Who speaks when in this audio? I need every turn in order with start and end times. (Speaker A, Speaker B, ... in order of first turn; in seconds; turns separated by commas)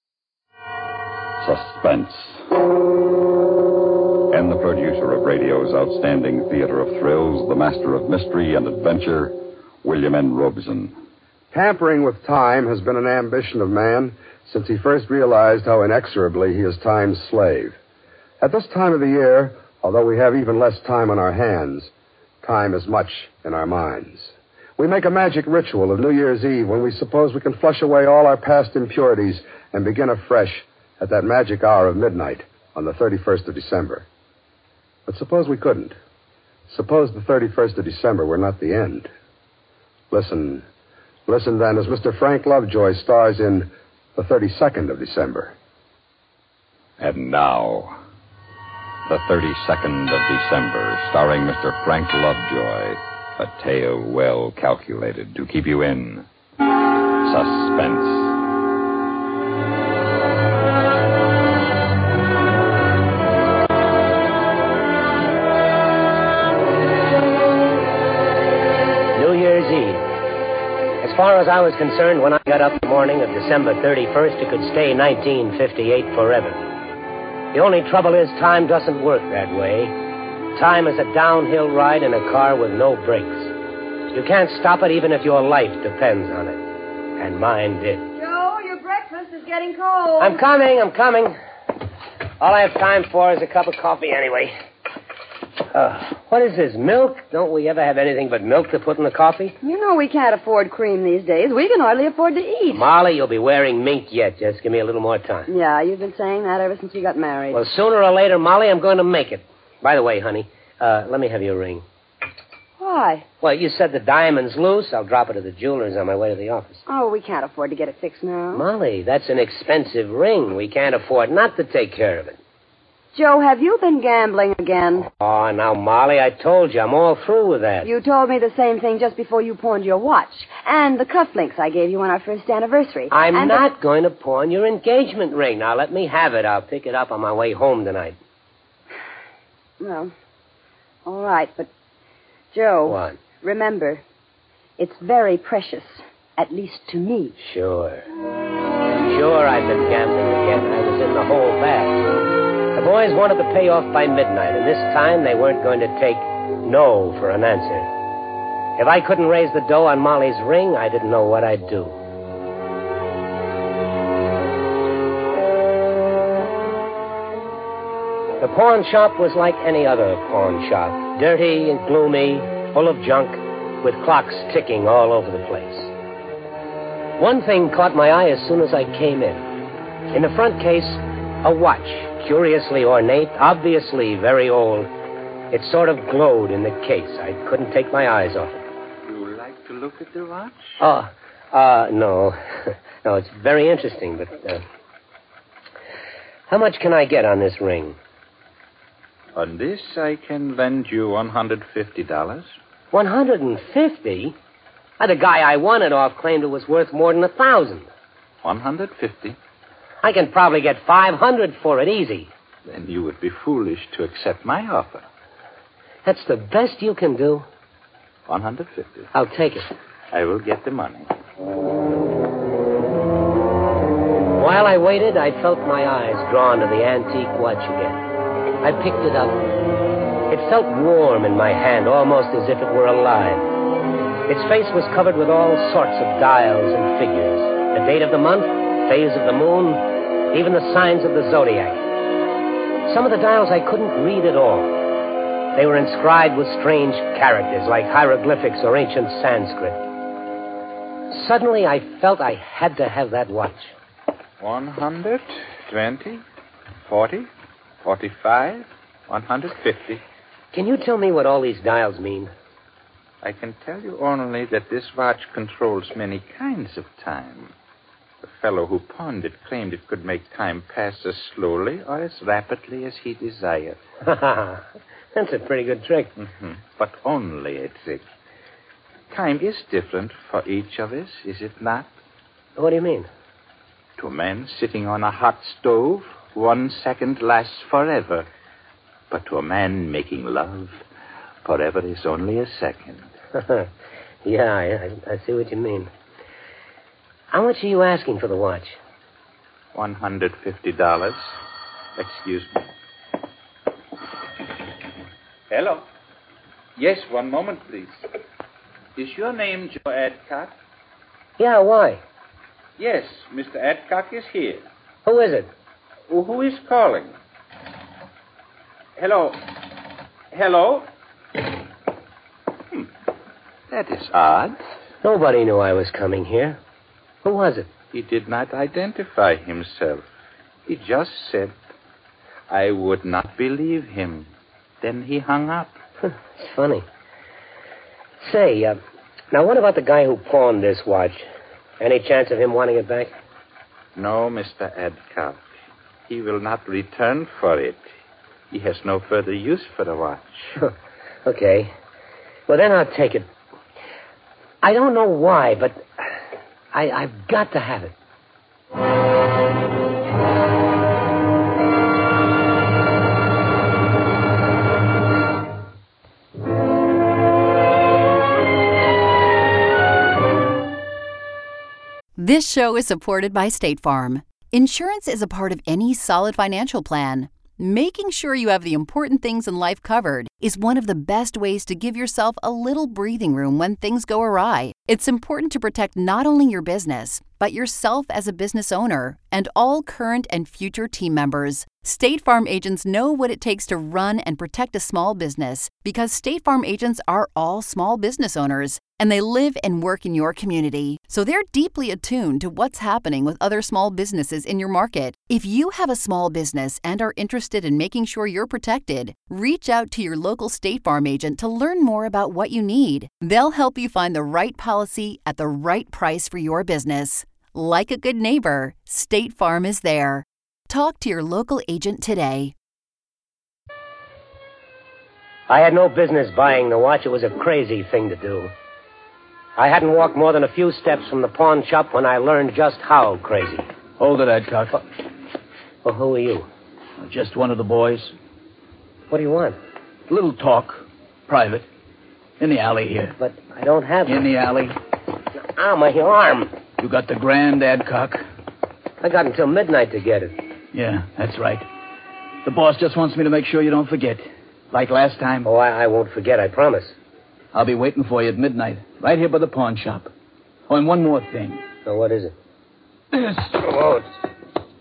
Speaker A: 1.4-2.5, Speaker A: 4.3-10.9, Speaker B: 11.5-17.8, Speaker B: 18.4-21.9, Speaker B: 22.4-34.1, Speaker B: 35.1-36.0, Speaker B: 36.7-39.1, Speaker B: 40.1-40.7, Speaker B: 41.3-45.5, Speaker A: 47.0-48.0, Speaker A: 49.1-56.3, Speaker A: 57.2-58.4, Speaker C: 69.2-70.0, Speaker C: 71.0-76.6, Speaker C: 77.5-80.0, Speaker C: 80.5-83.5, Speaker C: 84.1-86.6, Speaker C: 87.2-88.0, Speaker D: 88.2-90.4, Speaker C: 90.2-91.3, Speaker C: 92.4-94.5, Speaker C: 95.7-99.6, Speaker D: 99.6-102.9, Speaker C: 102.7-105.5, Speaker D: 105.5-107.7, Speaker C: 107.5-111.8, Speaker D: 112.8-113.2, Speaker C: 113.4-116.8, Speaker D: 116.9-118.7, Speaker C: 118.5-122.4, Speaker D: 123.1-125.1, Speaker C: 125.1-127.9, Speaker D: 127.8-133.7, Speaker C: 133.1-138.2, Speaker D: 139.8-140.1, Speaker D: 141.1-141.7, Speaker D: 142.5-144.0, Speaker C: 142.8-143.2, Speaker D: 144.8-147.3, Speaker C: 147.4-148.0, Speaker C: 149.0-152.0, Speaker C: 152.8-157.9, Speaker C: 158.8-162.0, Speaker C: 168.4-175.9, Speaker C: 177.2-179.4, Speaker C: 180.1-184.9, Speaker C: 185.5-188.7, Speaker E: 189.1-190.8, Speaker C: 190.8-194.6, Speaker C: 196.5-198.0, Speaker E: 199.3-202.5, Speaker C: 202.9-204.3, Speaker C: 205.0-207.9, Speaker E: 208.4-209.4, Speaker C: 210.0-212.3, Speaker E: 212.7-215.1, Speaker C: 216.1-217.5, Speaker E: 218.3-219.1, Speaker C: 219.1-219.7, Speaker E: 220.1-221.1, Speaker C: 224.4-228.1, Speaker C: 228.6-229.4, Speaker C: 230.3-233.5, Speaker C: 234.3-241.8, Speaker C: 242.8-244.7, Speaker C: 245.6-249.8, Speaker C: 251.1-253.7, Speaker E: 254.4-256.2, Speaker E: 256.9-257.3, Speaker E: 257.8-260.0, Speaker C: 260.5-262.3, Speaker E: 263.2-267.5, Speaker E: 268.2-273.8, Speaker C: 274.1-276.1, Speaker E: 276.2-278.1, Speaker E: 279.1-281.9, Speaker C: 282.6-283.1, Speaker E: 284.0-288.3, Speaker E: 289.1-290.8, Speaker E: 291.4-293.1, Speaker C: 293.4-293.7, Speaker C: 294.2-295.9, Speaker C: 297.3-298.8, Speaker E: 299.8-301.4, Speaker E: 302.0-302.7, Speaker E: 305.5-305.9, Speaker E: 306.8-308.0, Speaker E: 309.0-310.5, Speaker C: 311.4-312.0, Speaker E: 312.8-314.6, Speaker C: 315.1-315.5, Speaker E: 316.1-317.1, Speaker E: 319.0-319.4, Speaker E: 320.3-320.9, Speaker E: 323.7-324.6, Speaker C: 325.0-326.6, Speaker C: 327.2-327.7, Speaker E: 327.9-330.1, Speaker E: 330.7-331.6, Speaker E: 332.5-334.3, Speaker E: 334.8-335.8, Speaker C: 336.4-336.9, Speaker C: 338.2-338.8, Speaker C: 339.3-341.3, Speaker C: 341.8-343.1, Speaker E: 343.9-345.4, Speaker E: 346.1-347.9, Speaker E: 348.5-350.6, Speaker C: 351.2-351.7, Speaker C: 352.5-353.3, Speaker C: 354.6-355.9, Speaker C: 356.7-357.9, Speaker F: 372.2-422.5, Speaker C: 425.5-428.5, Speaker C: 429.6-433.7, Speaker G: 434.0-434.8, Speaker C: 435.8-436.5, Speaker G: 437.0-438.1, Speaker C: 439.1-439.6, Speaker G: 440.1-441.7, Speaker G: 442.4-443.2, Speaker C: 443.2-444.3, Speaker G: 444.1-444.8, Speaker C: 445.4-446.5, Speaker G: 446.8-448.3, Speaker C: 449.0-450.4, Speaker G: 450.7-451.7, Speaker G: 452.4-455.5, Speaker C: 455.4-456.9, Speaker G: 457.5-460.1, Speaker G: 460.7-461.6, Speaker C: 461.9-462.4, Speaker G: 463.1-463.6, Speaker C: 463.6-464.0